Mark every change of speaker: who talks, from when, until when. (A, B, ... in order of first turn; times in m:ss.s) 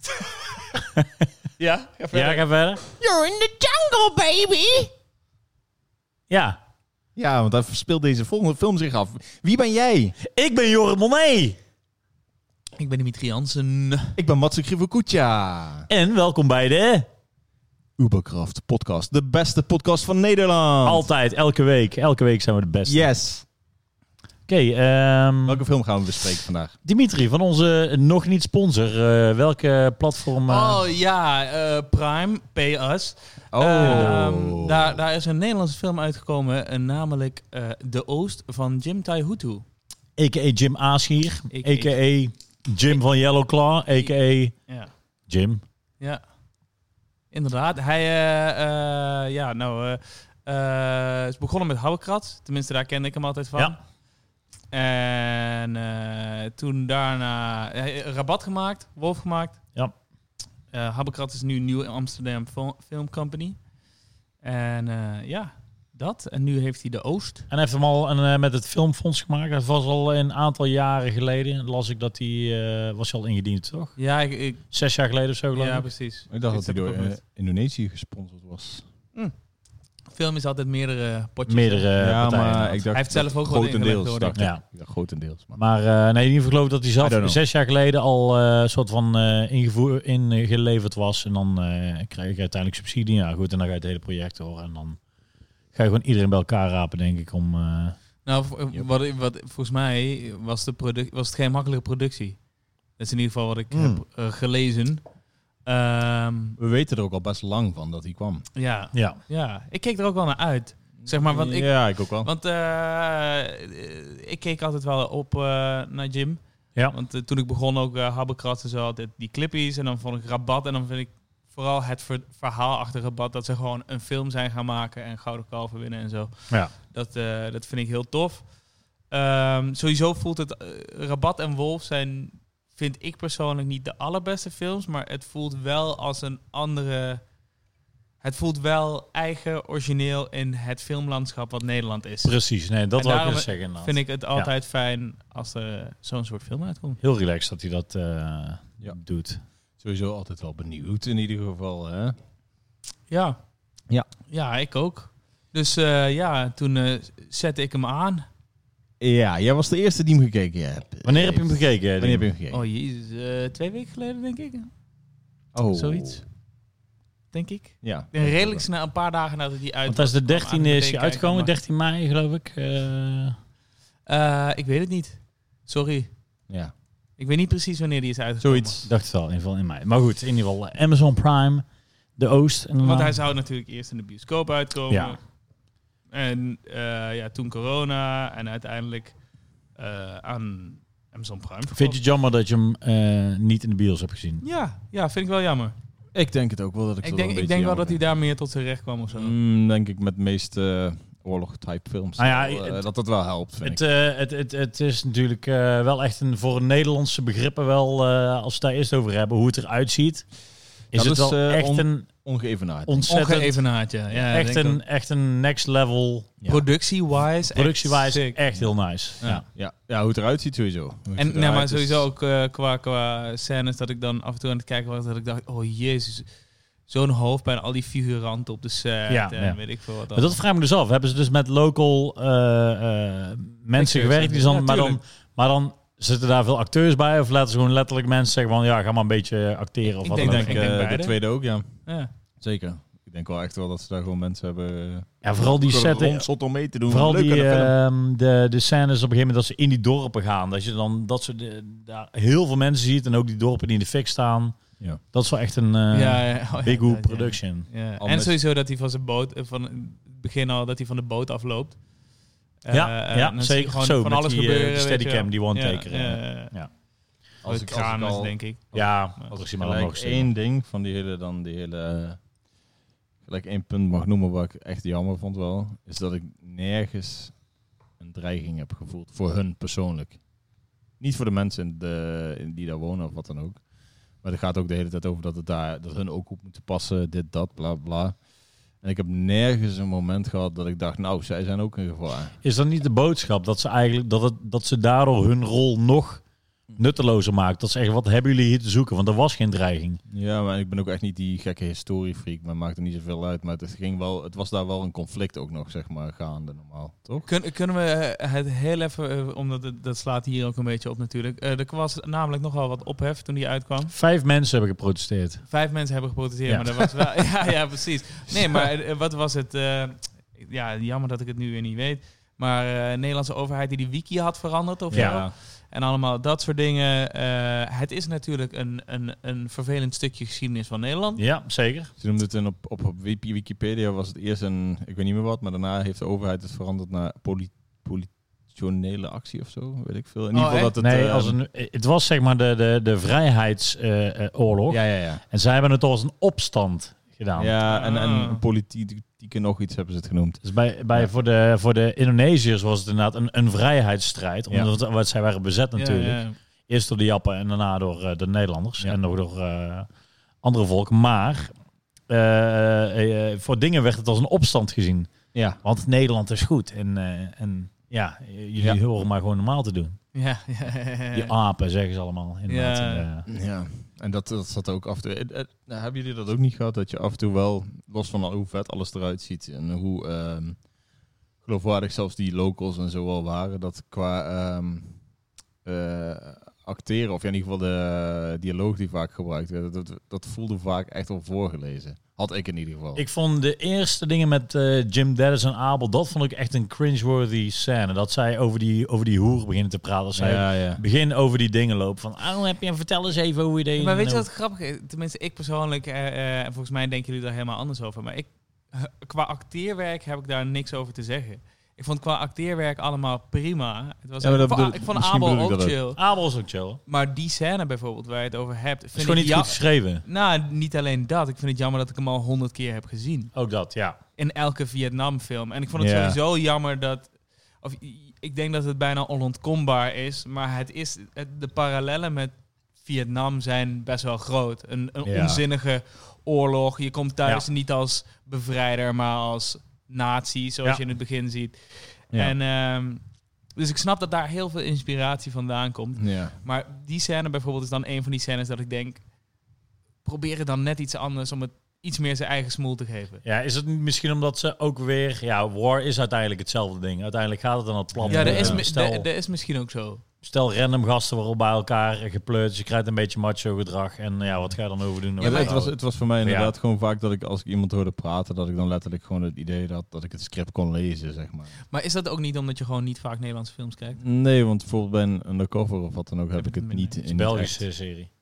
0:00.7-0:01.3 A
0:01.6-0:02.4 B
0:02.1-0:02.8 A
0:03.0-0:04.9 C
0:06.3-0:06.6 A
0:07.2-0:10.2 D
0:10.2-0:11.6 A
0:12.8-0:14.1 B
0:14.2-0:15.9 D
0:15.9-0:17.1 A
0:18.0-0:21.0 D
0:20.8-0:23.0 A
0:22.8-0:23.4 D
0:24.5-0:25.6 A
0:25.4-0:26.7 D
0:26.8-0:30.8 A
0:30.5-0:39.6 B
0:33.5-0:35.0 D
0:33.8-0:34.2 A
0:40.2-0:44.5 A
0:41.5-0:41.9 B
0:45.3-0:45.6 A
0:47.3-0:53.8 B
0:54.7-0:59.6 B
1:00.7-1:03.6 B
1:04.4-1:07.5 B
1:07.5-1:14.0 A
1:14.0-1:14.6 B
1:14.7-1:15.9 A
1:15.6-1:17.2 B
1:16.3-1:18.8 D
1:20.1-1:21.9 B
1:21.5-1:22.8 A
1:22.0-1:25.6 D
1:22.9-1:24.3 B
1:24.4-1:24.6 A
1:25.6-1:35.0 A
1:27.0-1:27.4 D
1:35.7-1:38.0 A
1:38.2-1:42.4 B
1:43.0-1:45.0 B
1:43.7-1:44.0 A
1:45.6-1:46.6 B
1:46.6-1:48.5 D
1:48.5-2:08.4 B
1:48.9-1:49.2 A
1:51.0-1:52.3 D
2:09.1-2:17.2 B
2:18.2-2:22.3 B
2:22.2-2:24.5 A
2:23.0-2:27.0 B
2:27.0-2:29.4 A
2:29.8-2:32.2 D
2:33.1-2:33.4 B
2:34.3-2:38.2 B
2:39.0-2:42.6 D
2:41.0-2:42.2 A
2:42.5-2:44.7 B
2:45.5-2:46.2 D
2:45.7-2:46.2 B
2:47.3-2:51.5 B
2:47.8-2:48.6 D
2:49.9-2:53.4 A
2:54.1-2:56.1 B
2:57.2-2:58.8 B
2:58.4-2:58.9 D
2:58.8-3:01.6 A
3:02.2-3:03.2 A
3:02.8-3:05.2 B
3:04.9-3:05.2 A
3:06.1-3:09.1 B
3:09.8-3:12.0 B
3:11.7-3:14.4 A
3:14.4-3:15.8 B
3:16.1-3:18.0 D
3:17.0-3:19.3 B
3:19.1-3:23.8 D
3:22.2-3:22.8 A
3:23.6-3:30.3 A
3:30.9-3:32.1 A
3:30.9-3:33.0 D
3:32.8-3:33.7 A
3:33.1-3:34.8 B
3:34.3-3:36.3 A
3:36.4-3:38.4 B
3:37.5-3:39.4 A
3:39.2-3:42.0 D
3:41.2-3:46.3 B
3:46.9-3:50.4 B
3:49.1-4:00.6 A
3:53.8-3:55.0 B
4:00.0-4:01.2 B
4:00.2-4:01.8 D
4:02.4-4:07.7 D
4:05.2-4:06.3 A
4:06.8-4:14.6 A
4:15.1-4:17.7 A
4:15.9-4:21.8 B
4:18.0-4:18.3 D
4:22.6-4:26.5 B
4:22.7-4:26.7 A
4:27.4-4:32.2 D
4:27.4-4:28.6 B
4:28.7-4:30.3 A
4:33.2-4:37.4 D
4:38.0-4:40.2 D
4:41.0-4:43.6 D
4:44.2-4:48.2 D
4:48.8-4:52.3 D
4:52.4-4:56.2 A
4:56.8-5:00.0 A
5:00.1-5:07.3 D
5:07.2-5:13.9 B
5:13.9-5:15.4 A
5:15.5-5:31.2 B
5:24.9-5:25.3 D
5:24.9-5:25.2 A
5:31.2-5:31.9 A
5:32.0-5:41.4 D
5:40.3-5:40.7 B
5:40.8-5:47.5 A
5:44.7-5:45.2 D
5:47.4-5:50.4 D
5:47.6-5:48.4 B
5:50.4-5:59.9 A
5:55.8-5:56.4 B
6:00.4-6:01.5 A
6:02.1-6:10.0 A
6:05.3-6:05.6 D
6:10.1-6:11.3 B
6:11.1-6:13.2 A
6:12.5-6:13.0 B
6:13.3-6:20.6 D
6:21.4-6:24.9 D
6:25.6-6:33.0 D
6:33.0-6:44.2 A
6:40.1-6:40.8 D
6:43.8-6:56.0 B
6:54.2-6:55.8 D
6:56.0-6:56.8 A
6:56.9-7:03.3 B
6:58.9-7:00.0 A
7:03.3-7:04.0 A
7:04.2-7:23.0 B
7:05.8-7:06.2 D
7:15.1-7:15.4 A
7:15.1-7:15.4 D
7:23.5-7:29.0 B
7:26.0-7:26.4 D
7:30.0-7:33.2 B
7:33.2-7:39.1 A
7:38.0-7:38.6 D
7:38.1-7:40.0 B
7:40.2-7:46.5 A
7:45.2-7:45.5 B
7:45.2-7:51.5 D
7:51.7-7:54.0 B
7:54.0-7:57.7 D
7:56.4-7:57.0 B
7:57.0-7:58.1 A